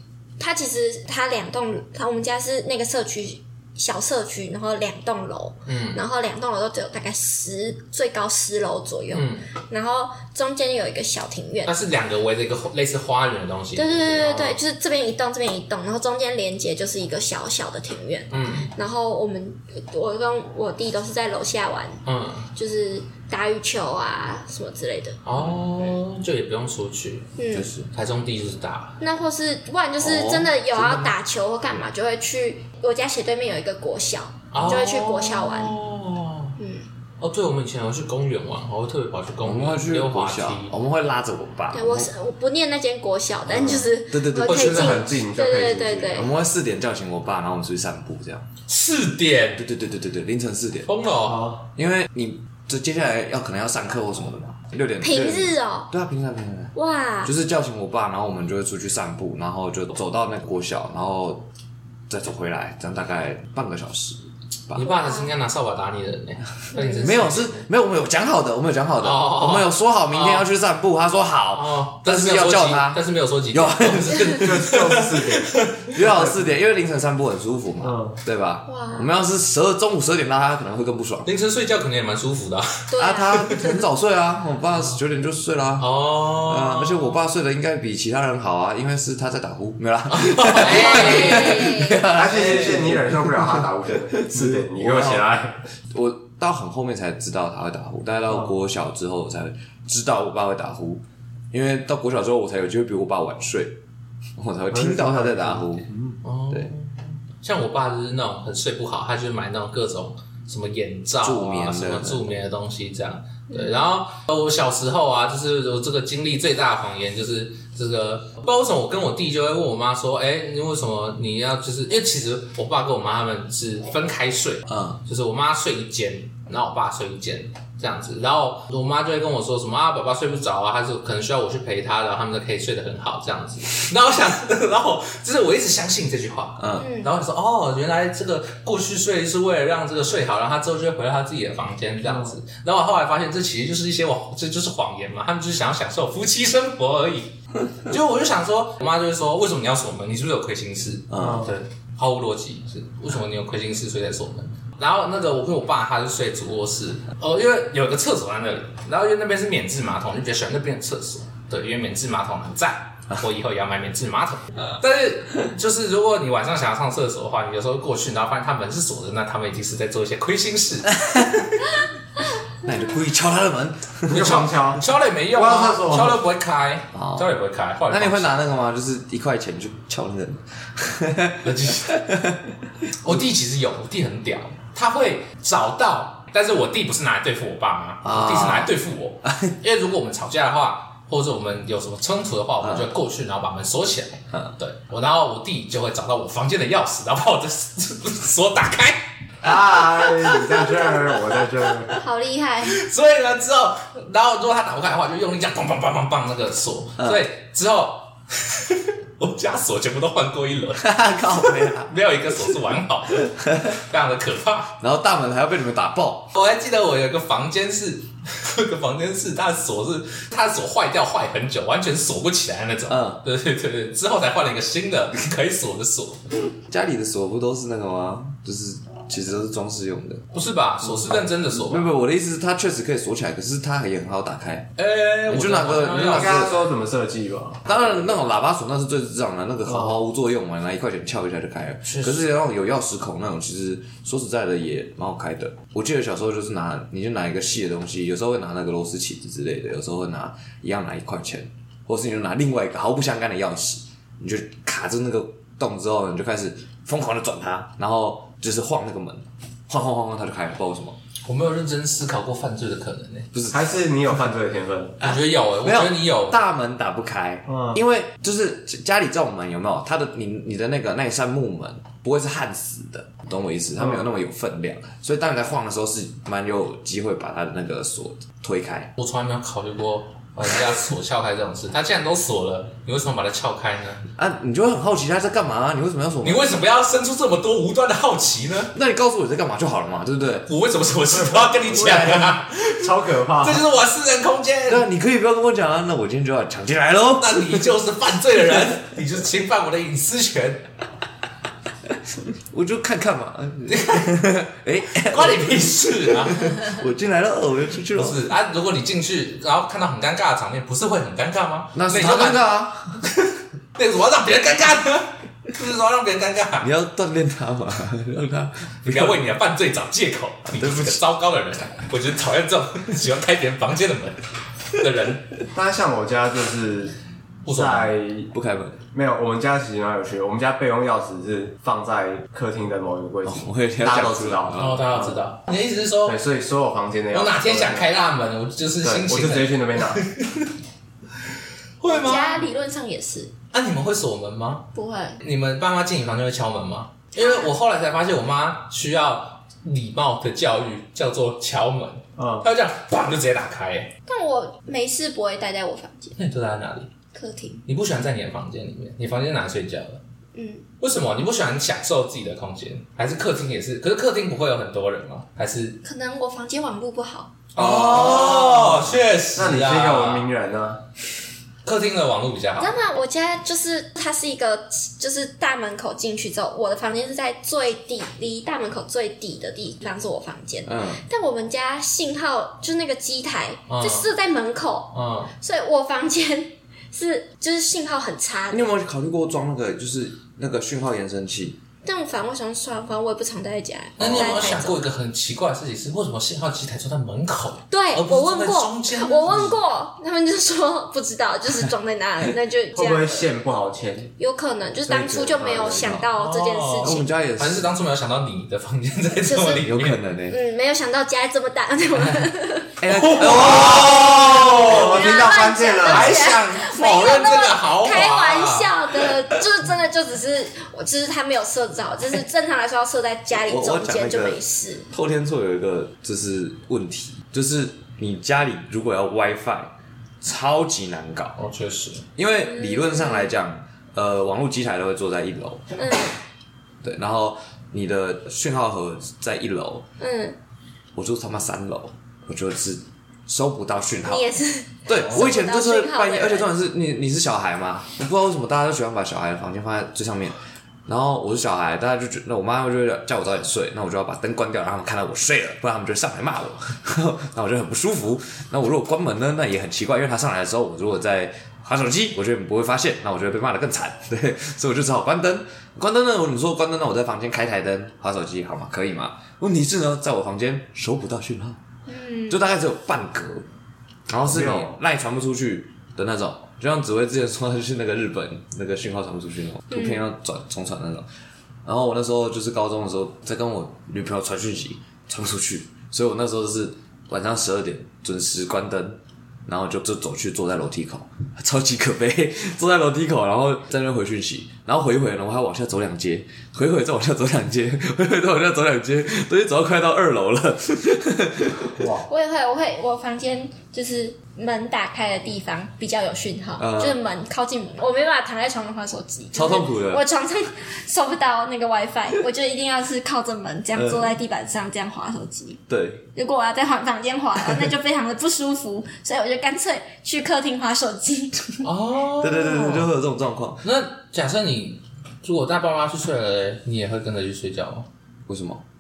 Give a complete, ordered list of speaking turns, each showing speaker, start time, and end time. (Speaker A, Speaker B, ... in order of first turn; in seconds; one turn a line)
Speaker A: 0.4-11.8
Speaker B: 5.7-6.0
Speaker B: 9.1-9.5
Speaker B: 11.7-14.6
Speaker A: 13.8-22.0
Speaker B: 18.3-18.7
Speaker B: 22.1-22.5
Speaker A: 22.6-25.2
Speaker B: 25.2-29.0
Speaker C: 25.3-26.0
Speaker A: 27.4-27.7
Speaker C: 27.5-27.9
Speaker A: 29.0-35.8
Speaker C: 30.0-31.1
Speaker B: 34.5-36.6
Speaker A: 36.6-36.9
Speaker B: 37.2-40.7
Speaker C: 39.4-42.1
Speaker A: 41.7-46.3
Speaker C: 43.5-45.1
Speaker D: 44.4-46.3
Speaker C: 46.1-48.5
Speaker B: 48.7-49.6
Speaker C: 49.6-50.9
Speaker B: 50.9-51.5
Speaker D: 51.2-51.6
Speaker C: 51.8-61.5
Speaker A: 55.0-55.9
Speaker A: 56.7-57.3
Speaker C: 62.1-64.9
Speaker B: 64.8-67.7
Speaker A: 64.8-65.3
Speaker A: 66.7-67.2
Speaker C: 67.0-74.7
Speaker B: 69.0-70.5
Speaker B: 71.5-75.8
Speaker D: 74.4-76.5
Speaker C: 75.9-81.3
Speaker D: 77.8-78.2
Speaker A: 78.7-79.1
Speaker B: 81.2-82.9
Speaker A: 82.9-83.8
Speaker C: 83.0-95.2
Speaker B: 85.8-87.2
Speaker B: 90.1-92.8
Speaker A: 90.6-92.0
Speaker D: 92.1-95.6
Speaker C: 95.9-103.8
Speaker D: 98.3-98.5
Speaker C: 104.4-105.9
Speaker D: 104.7-106.2
Speaker B: 106.2-171.0
Speaker C: 111.2-112.2
Speaker A: 113.5-113.9
Speaker C: 124.7-125.0
Speaker C: 136.6-136.9
Speaker A: 136.8-137.1
Speaker D: 142.1-142.4
Speaker C: 151.1-151.5
Speaker D: 151.2-151.5
Speaker C: 171.1-171.5
Speaker C: 172.6-174.4
Speaker D: 174.1-176.2
Speaker B: 174.1-178.4
Speaker C: 176.9-177.3
Speaker C: 177.9-182.5
Speaker B: 181.4-182.0
Speaker B: 183.0-199.1
Speaker C: 188.0-189.6
Speaker C: 192.6-192.9
Speaker D: 199.4-202.0
Speaker B: 200.1-200.6
Speaker A: 201.9-202.8
Speaker B: 202.7-214.8
Speaker C: 207.0-207.2
Speaker C: 210.8-211.9
Speaker C: 213.3-213.7
Speaker C: 214.8-216.3
Speaker B: 216.3-226.2
Speaker C: 222.9-223.2
Speaker C: 226.7-230.2
Speaker B: 230.3-231.9
Speaker C: 231.1-234.7
Speaker B: 234.8-236.6
Speaker C: 235.3-236.6
Speaker D: 236.1-238.2
Speaker C: 237.7-261.0
Speaker D: 239.7-240.0
Speaker B: 241.8-242.2
Speaker B: 261.2-263.3
Speaker C: 263.3-263.8
Speaker D: 263.5-265.0
Speaker B: 265.0-266.4
Speaker C: 265.0-278.9
Speaker D: 267.5-267.8
Speaker D: 273.8-274.1
Speaker B: 279.0-284.0
Speaker C: 284.2-286.6
Speaker B: 286.2-288.7
Speaker C: 288.7-290.5
Speaker B: 290.5-294.9
Speaker D: 291.2-293.7
Speaker C: 291.7-292.1
Speaker C: 294.7-297.7
Speaker B: 297.2-300.6
Speaker C: 302.5-308.2
Speaker B: 303.7-304.1
Speaker B: 305.0-306.8
Speaker B: 307.9-312.5
Speaker C: 311.7-313.0
Speaker B: 313.0-316.7
Speaker C: 316.6-319.2
Speaker B: 318.8-324.2
Speaker C: 320.5-321.0
Speaker B: 324.7-325.3
Speaker D: 325.5-326.9
Speaker B: 327.4-327.9
Speaker D: 327.5-328.3
Speaker C: 328.3-328.8
Speaker D: 328.9-335.2
Speaker C: 333.2-334.8
Speaker B: 334.6-336.2
Speaker D: 336.1-337.9
Speaker B: 337.1-340.5
Speaker D: 338.8-340.0
Speaker B: 341.8-342.5
Speaker A: 341.9-343.3
Speaker B: 343.5-353.9
Speaker A: 344.7-345.2
Speaker A: 347.1-347.5
Speaker D: 352.2-352.5
Speaker A: 354.1-356.2
Speaker B: 356.2-356.9
Speaker A: 357.1-357.6
Speaker B: 357.7-360.0
Speaker A: 360.3-360.7
Speaker B: 360.8-365.8
Speaker A: 365.8-367.4
Speaker B: 367.5-370.3
Speaker C: 367.6-368.9
Speaker D: 368.2-368.6
Speaker D: 369.3-370.8
Speaker B: 371.6-372.8
Speaker A: 372.6-388.7
Speaker C: 380.6-381.0
Speaker B: 383.7-384.1
Speaker B: 384.9-385.3
Speaker C: 388.5-391.6
Speaker A: 391.8-394.8
Speaker C: 394.0-394.6
Speaker B: 394.0-399.6
Speaker A: 397.7-403.3
Speaker D: 402.7-404.1
Speaker A: 404.2-407.1
Speaker D: 404.9-406.0
Speaker C: 405.4-406.1
Speaker B: 406.2-410.0
Speaker C: 406.8-407.7
Speaker A: 409.2-409.7
Speaker C: 409.6-410.4
Speaker A: 410.3-412.7
Speaker C: 412.8-414.1
Speaker B: 412.9-415.3
Speaker D: 413.2-416.2
Speaker A: 414.3-424.9
Speaker B: 415.8-418.8
Speaker C: 423.4-431.4
Speaker B: 431.4-432.1
Speaker C: 432.2-435.6
Speaker A: 432.3-433.3
Speaker A: 435.8-436.1
Speaker C: 436.8-439.9
Speaker A: 440.0-440.4
Speaker C: 440.9-444.3
Speaker A: 444.1-446.5
Speaker C: 444.9-471.6
Speaker B: 444.9-445.2
Speaker A: 471.9-472.4
Speaker C: 472.3-473.5
Speaker C: 474.1-481.1
Speaker D: 474.2-474.8
Speaker A: 479.7-480.0
Speaker C: 481.6-501.9
Speaker D: 501.8-502.1
Speaker A: 502.1-515.6
Speaker C: 506.6-507.0
Speaker C: 509.3-510.0
Speaker C: 513.8-514.1
Speaker C: 515.7-516.0
Speaker A: 516.1-521.7
Speaker B: 521.6-522.9
Speaker C: 522.2-523.6
Speaker B: 523.6-527.9
Speaker C: 528.3-528.6